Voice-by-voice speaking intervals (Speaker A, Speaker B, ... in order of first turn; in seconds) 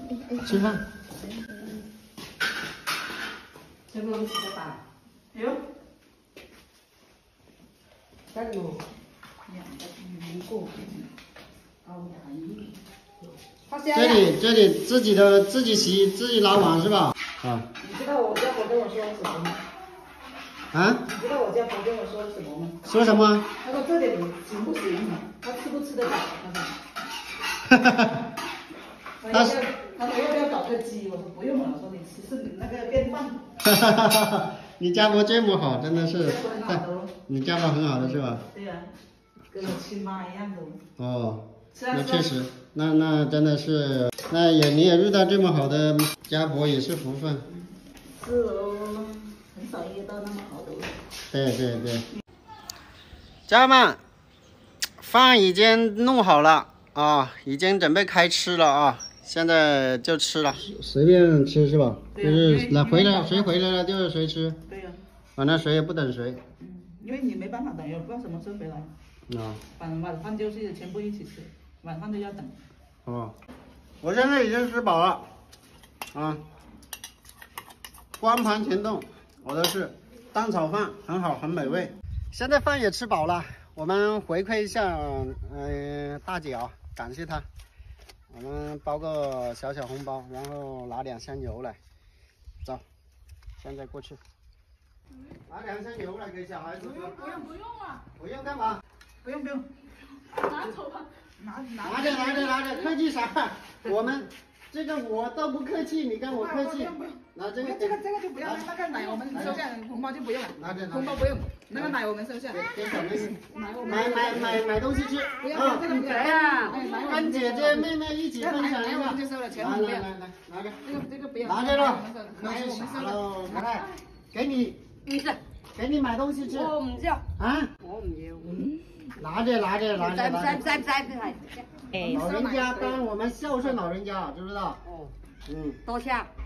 Speaker A: 0.3-0.7, 3.9-4.8, 8.3-8.8, 13.7-14.3, 114.0-114.4, 115.7-116.8, 123.5-123.8, 125.0-125.4, 126.5-127.2, 127.8-128.7, 129.9-132.3, 134.8-135.1, 135.8-136.3
Speaker B: 0.4-0.8, 13.9-17.7, 20.7-21.1, 22.9-23.5, 27.7-28.2, 29.3-29.6, 33.6-38.5, 41.0-47.5, 51.3-52.1, 53.5-54.0, 55.0-64.6, 65.4-66.4, 69.3-69.6, 73.0-73.4, 74.0-75.3, 76.1-76.4, 78.2-87.5, 88.3-91.8, 93.6-94.2, 95.5-97.5, 98.2-98.8, 101.8-108.7, 109.3-109.6, 110.5-112.0, 112.5-116.1, 116.7-120.8, 121.4-124.8, 125.8-126.8, 127.4-127.7, 129.2-130.7, 132.0-134.8, 135.5-135.8
Speaker C: 5.3-5.6, 9.5-11.1, 11.8-12.8, 17.8-19.6, 21.1-22.8, 23.6-26.8, 29.2-33.4, 36.0-37.1, 38.5-38.9, 39.5-40.8, 41.7-42.3, 48.1-50.9, 62.1-63.6, 64.7-65.0, 66.6-68.9, 69.8-72.6, 96.7-98.0, 99.2-99.7, 100.2-102.9, 106.3-114.6, 115.4-120.1, 120.8-123.6, 132.0-132.6